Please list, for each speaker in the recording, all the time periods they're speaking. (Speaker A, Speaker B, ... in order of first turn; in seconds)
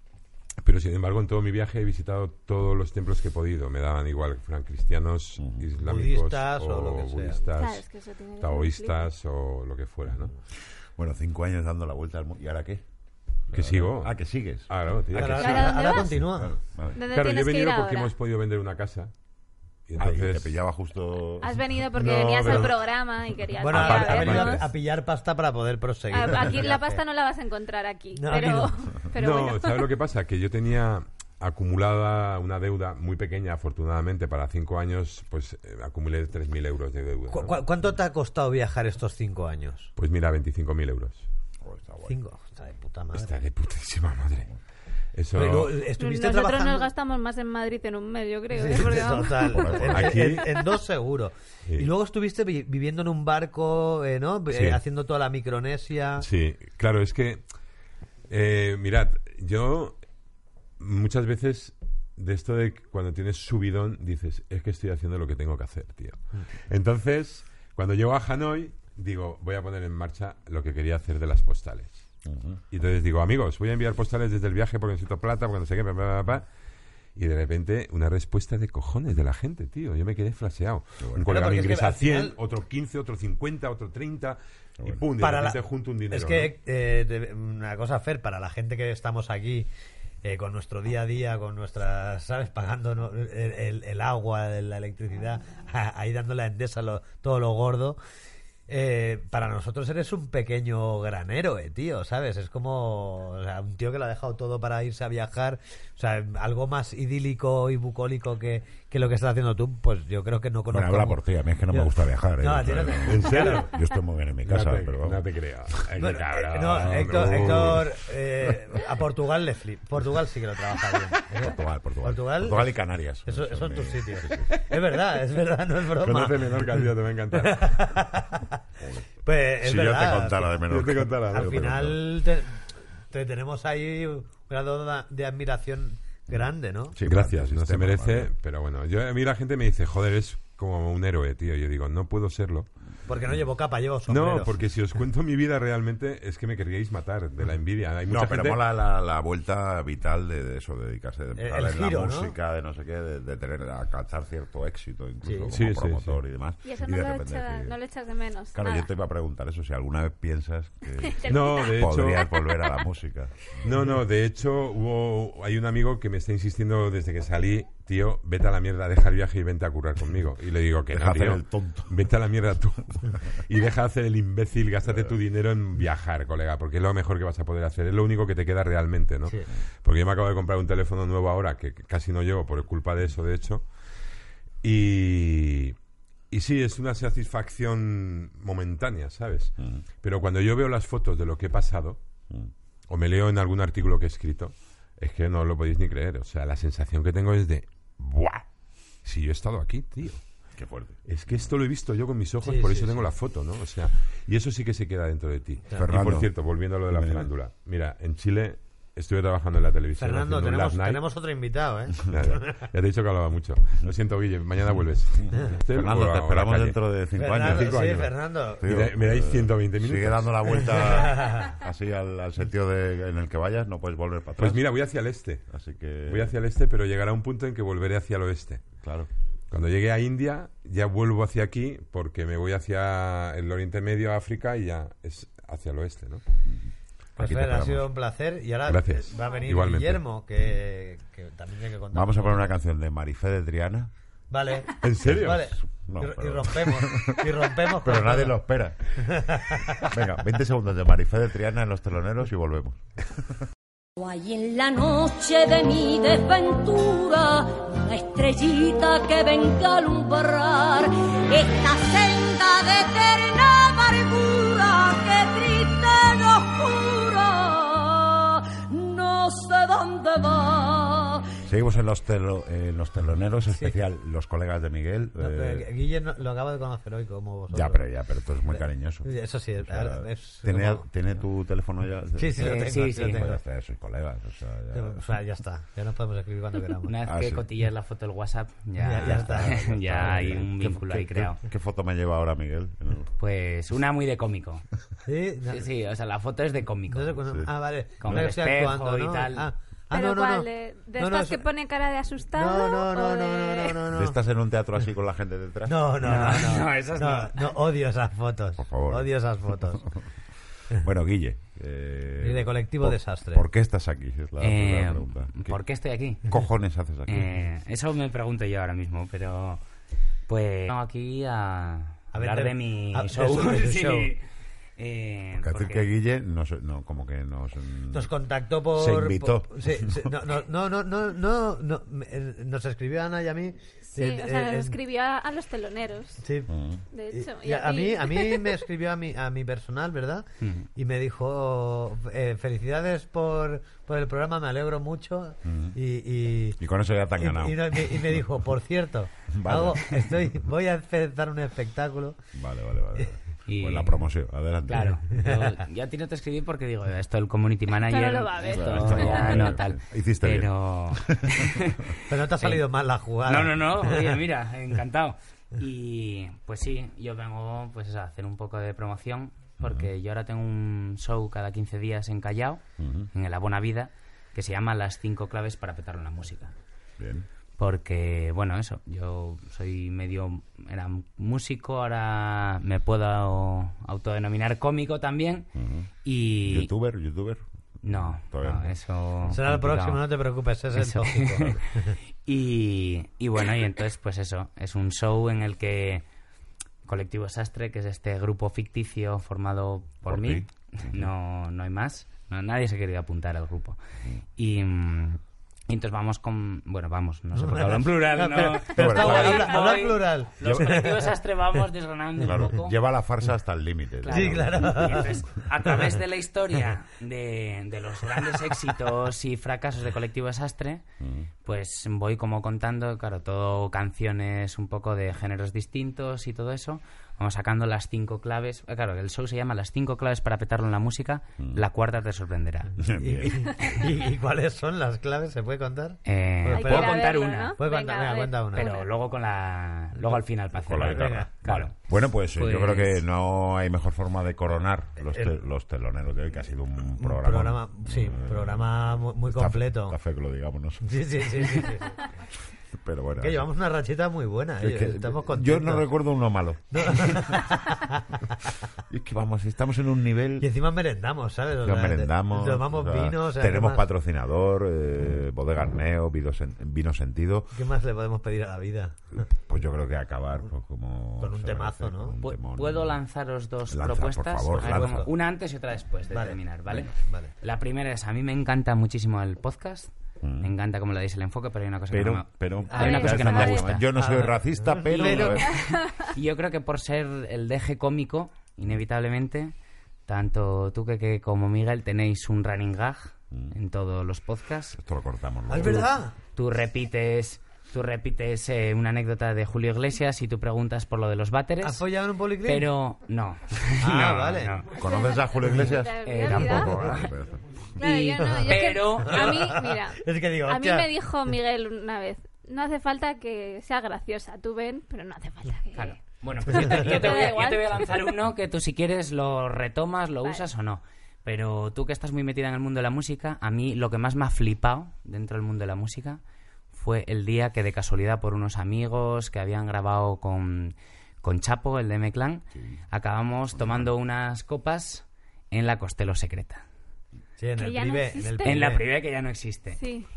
Speaker A: 0.6-7.8, 8.4-10.3, 13.5-15.9, 17.0-19.1, 19.9-20.6, 21.9-22.8, 23.7-24.7, 29.1-37.6, 40.0-41.2, 43.1-44.5, 45.1-45.8, 49.9-50.7, 54.5-54.8, 56.2-57.4, 58.3-60.0, 60.8-72.1, 72.7-76.5, 77.2-86.5, 113.0-113.8, 114.4-118.0, 126.0-127.9, 130.6-131.7, 137.0-142.7, 144.1-148.6, 155.5-156.2, 161.3-162.3, 163.6-183.7, 184.6-185.8, 186.3-192.0, 192.9-198.4, 199.0-200.3, 201.0-211.0, 212.1-216.8, 217.4-218.1, 218.6-220.7, 224.4-225.5, 226.0-228.6, 229.5-236.2, 238.7-240.0, 244.8-245.5
Speaker B: 5.4-5.7, 10.9-12.8, 13.5-17.0, 20.0-21.8, 41.6-42.2, 48.8-50.4, 72.2-72.6, 81.0-81.3, 84.8-85.0, 110.7-115.2, 121.3-124.7, 128.8-129.1, 129.6-132.0, 136.9-138.3, 148.0-157.8, 158.5-163.7, 170.9-172.0, 189.6-189.8, 200.6-201.5, 205.7-207.3, 214.7-224.7, 225.5-226.3, 228.8-229.1, 236.5-237.9, 241.9-243.9, 245.0-252.8, 271.4-275.7, 277.5-285.0, 287.0-287.4, 289.0-293.1, 298.0-298.3, 303.9-306.1, 308.6-309.9, 310.8-315.6, 316.3-317.5, 325.4-328.1, 328.7-330.1, 336.5-336.8, 345.4-345.8, 346.6-348.3, 349.3-350.3, 352.3-355.0, 358.4-361.7, 369.6-369.9, 372.8-373.1, 377.0-377.3, 385.5-385.9, 386.4-389.4, 400.1-401.1, 408.7-409.6, 410.4-410.7, 412.2-415.1, 421.0-421.3, 431.4-431.6, 432.8-433.9, 440.6-451.7, 452.7-453.5, 454.6-457.5, 458.9-460.5, 461.6-467.5, 469.3-473.0, 473.7-475.1, 480.2-480.5, 481.9-485.6, 494.8-495.9, 504.7-507.6, 532.5-532.8, 533.5-533.9
Speaker C: 5.8-7.4, 15.1-16.5, 23.6-27.0, 28.1-28.8, 37.3-39.9, 42.1-43.4, 45.3-46.9, 48.5-56.2, 81.3-82.3, 85.2-89.7, 90.2-98.0, 98.7-113.7, 116.0-128.6, 129.2-130.6, 131.3-137.0, 143.1-144.6, 151.4-152.3, 155.2-155.5, 202.4-203.1, 210.0-212.7, 217.2-218.7, 220.7-221.5, 237.2-242.5, 244.3-248.4, 249.0-249.9, 275.2-277.8, 278.5-280.9, 282.1-283.4, 284.7-286.9, 288.8-290.4, 295.0-295.6, 296.9-301.5, 302.3-304.2, 305.6-309.9, 312.2-313.4, 322.1-324.1, 327.9-334.8, 336.2-336.5, 337.1-346.6, 347.1-352.2, 354.8-355.5, 362.1-364.1, 389.3-391.9, 407.3-411.1, 414.1-415.2, 432.8-438.7, 440.7-441.3, 445.1-445.4, 447.0-450.0, 450.8-452.0, 453.2-455.9, 456.7-458.4, 460.4-463.8, 467.5-469.2, 471.2-472.2, 474.6-475.1, 476.1-477.3, 482.7-483.0, 483.9-485.6, 495.5-496.1, 501.6-502.7, 503.8-504.6, 508.2-510.9, 537.4-538.8
Speaker D: 7.5-9.1, 15.4-16.2, 16.9-18.1, 21.4-24.7, 26.1-29.9, 46.0-49.8, 156.6-158.9, 161.0-162.7, 299.9-303.8, 333.9-336.2, 336.9-338.6, 357.8-359.6, 436.5-438.9, 482.7-483.7, 504.8-506.8, 507.8-518.1, 537.6-538.8, 539.8-540.1
Speaker E: 254.0-271.2
Speaker F: 282.4-283.2, 286.8-291.4, 293.2-294.6, 295.5-297.2, 298.0-299.5, 306.0-307.5, 314.4-316.3, 317.1-319.6, 320.3-324.2, 324.8-325.9, 340.4-340.7, 353.4-354.1, 354.7-362.6, 363.2-376.5, 377.6-385.5, 386.0-386.7, 387.8-390.1, 390.7-391.6, 392.2-396.0, 396.8-403.8, 404.4-412.8, 414.0-420.8, 421.4-432.7, 436.0-437.6, 438.6-441.8, 442.3-443.0, 472.2-483.9, 484.9-489.5, 490.1-494.8, 495.6-501.8, 502.4-504.8, 506.0-507.1, 507.8-509.5, 515.7-526.2, 526.7-536.6, 538.4-539.8